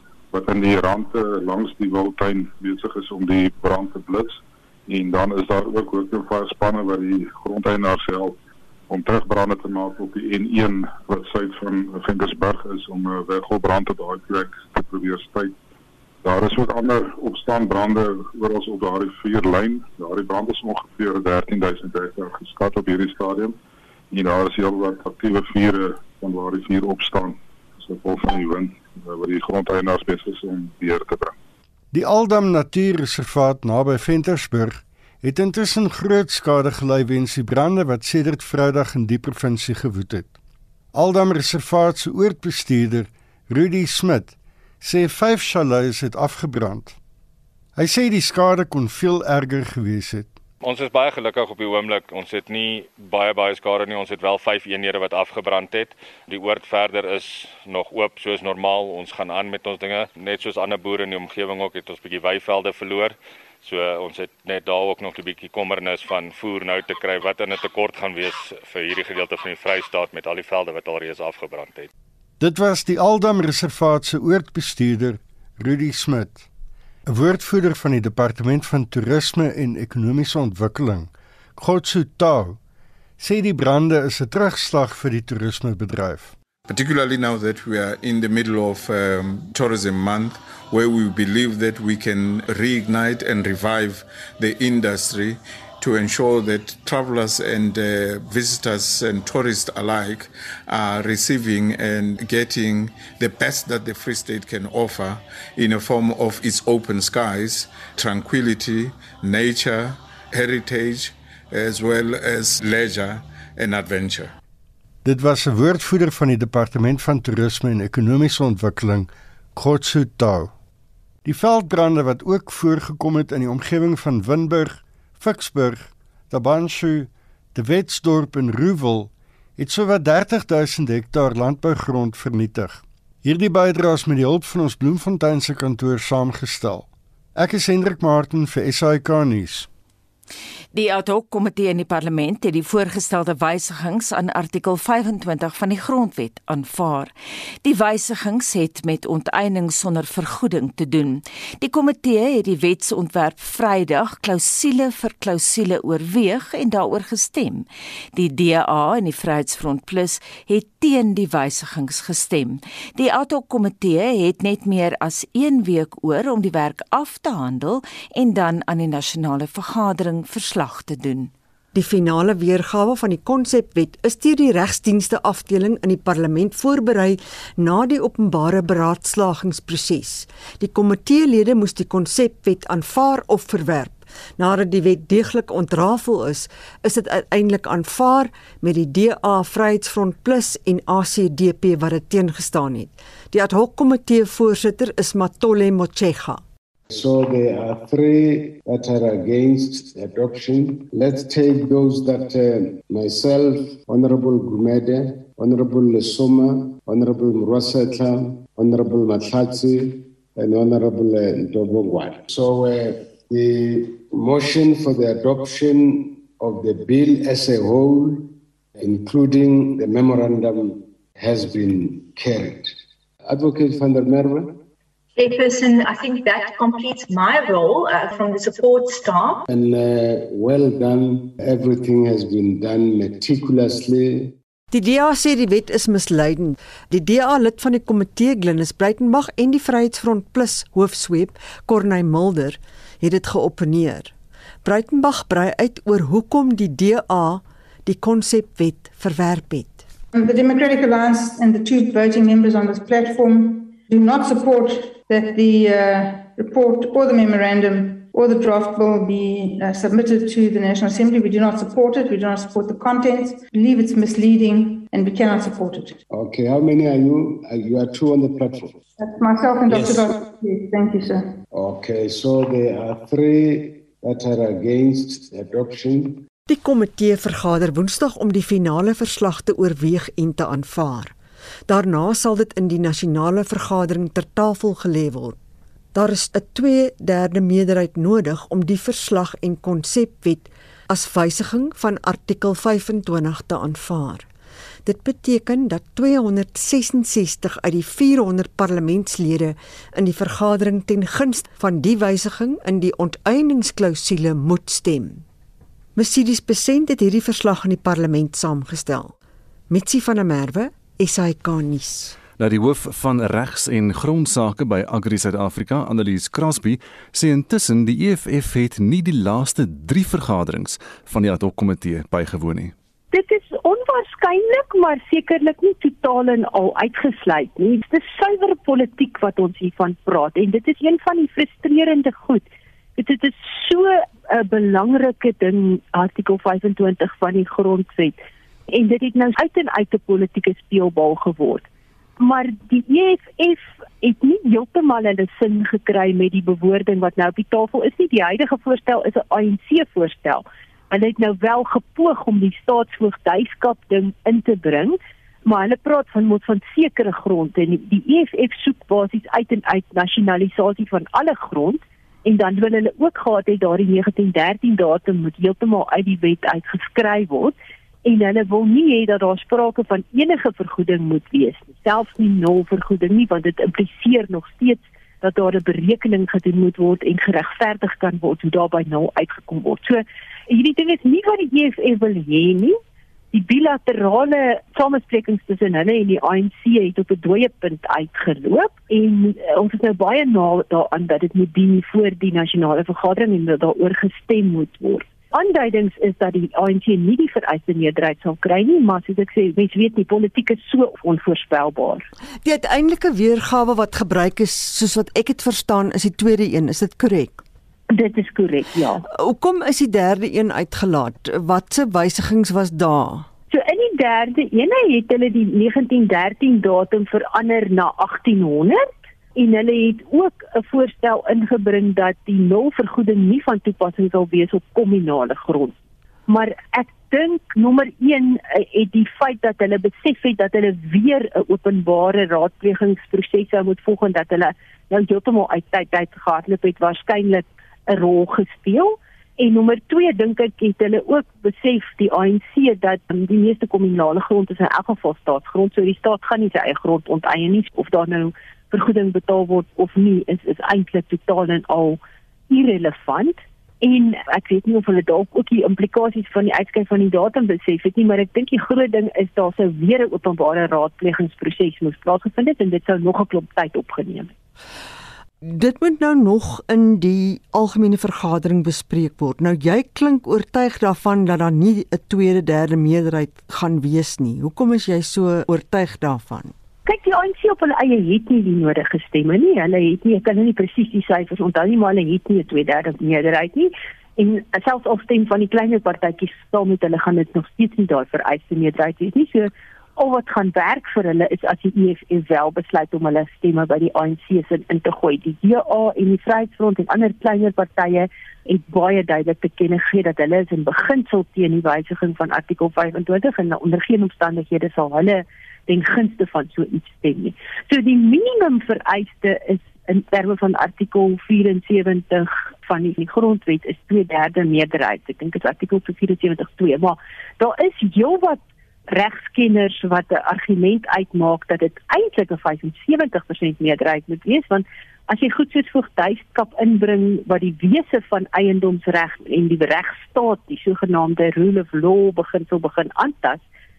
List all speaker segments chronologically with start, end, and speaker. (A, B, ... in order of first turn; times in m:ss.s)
0:00.3-0:15.6 A
0:16.2-0:23.6 A
0:24.1-0:31.4 A
0:31.9-0:40.4 B
0:40.9-0:47.0 B
0:47.8-0:50.4 B
0:50.6-1:11.9 C
1:12.4-1:16.5 B
1:17.1-1:22.6 B
1:23.2-1:26.3 B
1:26.7-1:54.3 D
1:55.0-2:00.5 B
2:01.2-2:19.7 B
2:20.7-2:27.1 E
2:27.6-2:51.3 E
2:51.7-3:16.4 F
3:16.9-3:42.7 G
3:43.3-3:44.6 G
3:45.2-3:49.4 H
3:49.5-3:54.4 G
3:54.7-4:04.1 F
4:04.6-4:09.8 F
4:10.1-4:26.0 I
4:26.1-4:28.8 G
4:29.0-4:31.4 I
4:29.7-4:30.1 G
4:31.5-4:36.2 G
4:36.5-4:41.2 F
4:41.7-4:45.4 F
4:45.9-4:54.3 F
4:54.8-5:05.2 F
5:06.0-5:09.1 F
5:09.7-5:12.2 F
5:12.4-5:22.7 J
5:23.1-5:41.6 K
5:42.2-6:22.8 K
6:23.3-6:42.0 K
6:42.4-6:47.4 F
6:47.9-6:49.0 K
6:49.1-6:53.3 F
6:53.5-7:05.8 K
7:06.3-7:44.3 K
7:45.4-7:56.5 F
7:56.9-8:53.4 K